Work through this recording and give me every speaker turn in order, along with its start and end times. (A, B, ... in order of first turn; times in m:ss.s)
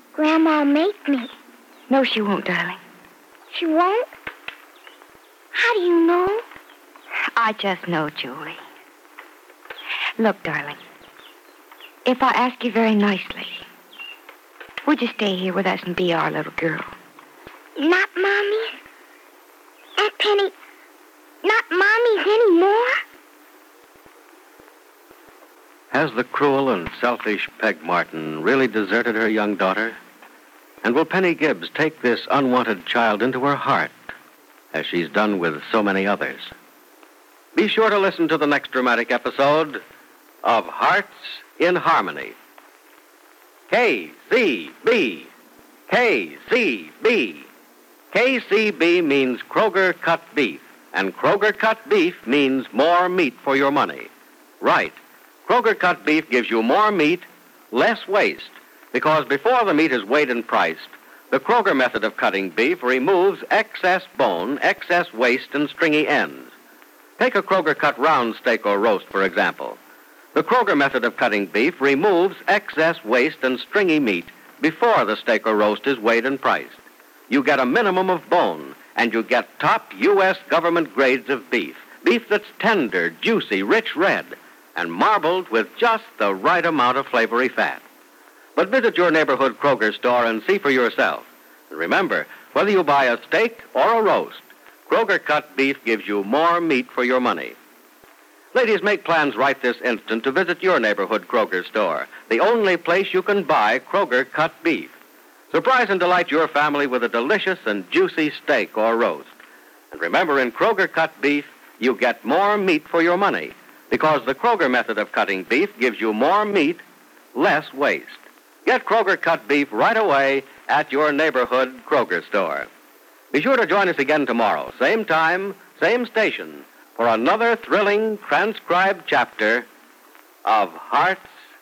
0:00.1-0:01.3 A
0:01.9-0:02.8 B
0:03.5-0:04.1 A
0:05.5-0:06.4 A
0:07.4-0:08.6 B
0:10.2-0:10.8 B
0:12.0-0:13.6 B
0:14.8-0:16.9 B
0:17.8-0:18.7 A
0:20.0-0:20.5 A
0:21.4-0:23.0 A
0:25.9-0:30.0 C
0:30.8-0:34.0 C
0:34.7-0:36.5 C
0:37.5-0:39.8 C
0:40.4-0:42.4 C
0:43.7-0:45.3 C
0:45.9-0:47.5 C
0:48.1-0:54.1 C
0:54.6-1:06.5 C
1:07.2-1:09.8 C
1:10.3-1:16.8 C
1:17.3-1:27.8 C
1:28.6-1:37.6 C
1:38.5-1:44.9 C
1:45.5-1:49.3 C
1:49.9-1:56.8 C
1:57.3-2:02.7 C
2:03.3-2:09.7 C
2:10.4-2:11.3 C